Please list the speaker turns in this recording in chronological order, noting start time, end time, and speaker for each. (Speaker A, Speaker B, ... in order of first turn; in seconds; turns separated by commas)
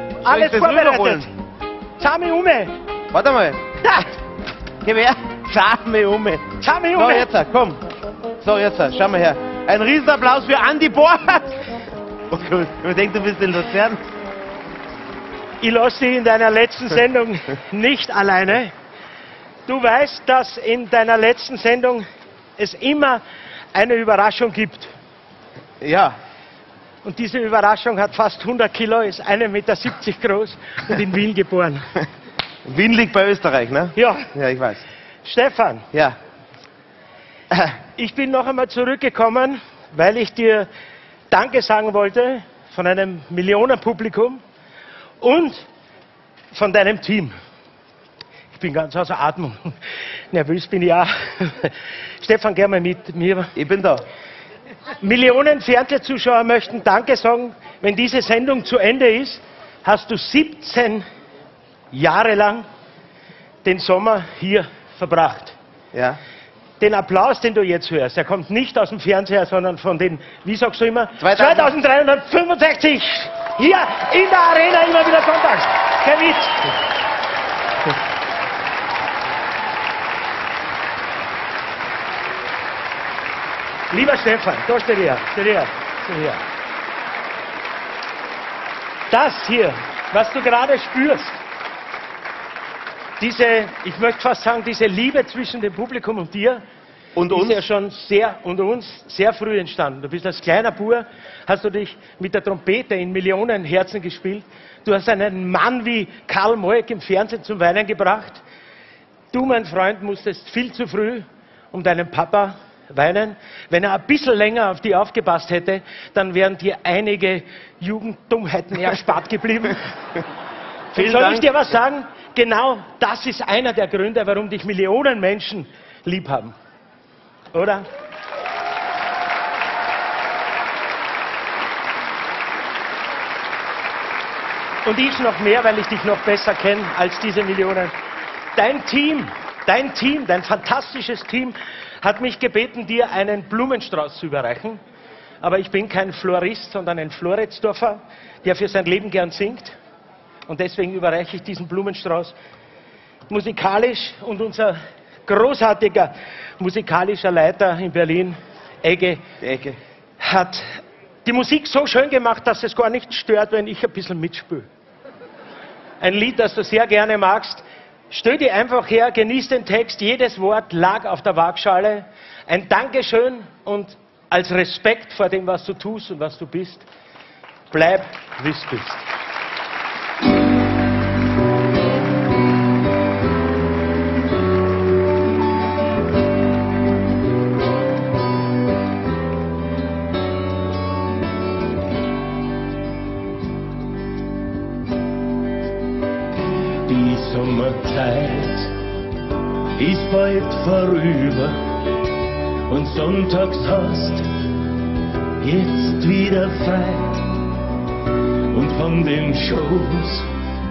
Speaker A: 0.2-1.3, Speaker B: 0.2-1.3, Speaker B: 2.0-2.7, Speaker A: 3.1-3.6, Speaker B: 3.8-4.1, Speaker A: 4.8-6.4, Speaker B: 6.6-7.3, Speaker A: 7.0-7.8, Speaker A: 8.4-11.7, Speaker A: 12.3-14.0, Speaker B: 15.6-18.7, Speaker B: 19.7-22.0, Speaker B: 22.6-23.2, Speaker B: 23.7-24.9, Speaker A: 25.8-26.2, Speaker B: 27.0-31.9, Speaker A: 32.6-34.8, Speaker B: 34.0-34.3, Speaker B: 35.2-35.9, Speaker B: 38.0-40.7, Speaker B: 41.3-44.4, Speaker B: 45.2-45.6, Speaker B: 46.5-47.3, Speaker B: 48.5-49.8, Speaker B: 50.3-53.5, Speaker A: 53.5-54.0, Speaker B: 55.0-61.0, Speaker B: 61.9-62.6, Speaker B: 63.6-65.5, Speaker A: 65.9-66.2, Speaker B: 66.8-76.6, Speaker A: 71.2-71.7, Speaker B: 83.9-86.4, Speaker B: 89.1-91.4, Speaker B: 93.2-96.6, Speaker A: 97.2-97.6, Speaker B: 97.3-108.4, Speaker B: 109.3-119.8, Speaker B: 120.9-126.5, Speaker A: 121.0-121.5, Speaker B: 127.5-127.8, Speaker B: 134.8-137.9, Speaker B: 138.6-144.8, Speaker B: 145.4-149.8, Speaker B: 150.5-152.3, Speaker B: 153.3-159.2, Speaker A: 159.4-159.8, Speaker B: 160.2-164.7, Speaker B: 166.0-176.8, Speaker B: 177.7-179.1, Speaker C: 196.9-198.7, Speaker C: 199.8-201.6, Speaker C: 202.7-204.3, Speaker C: 205.4-207.4, Speaker C: 208.5-210.3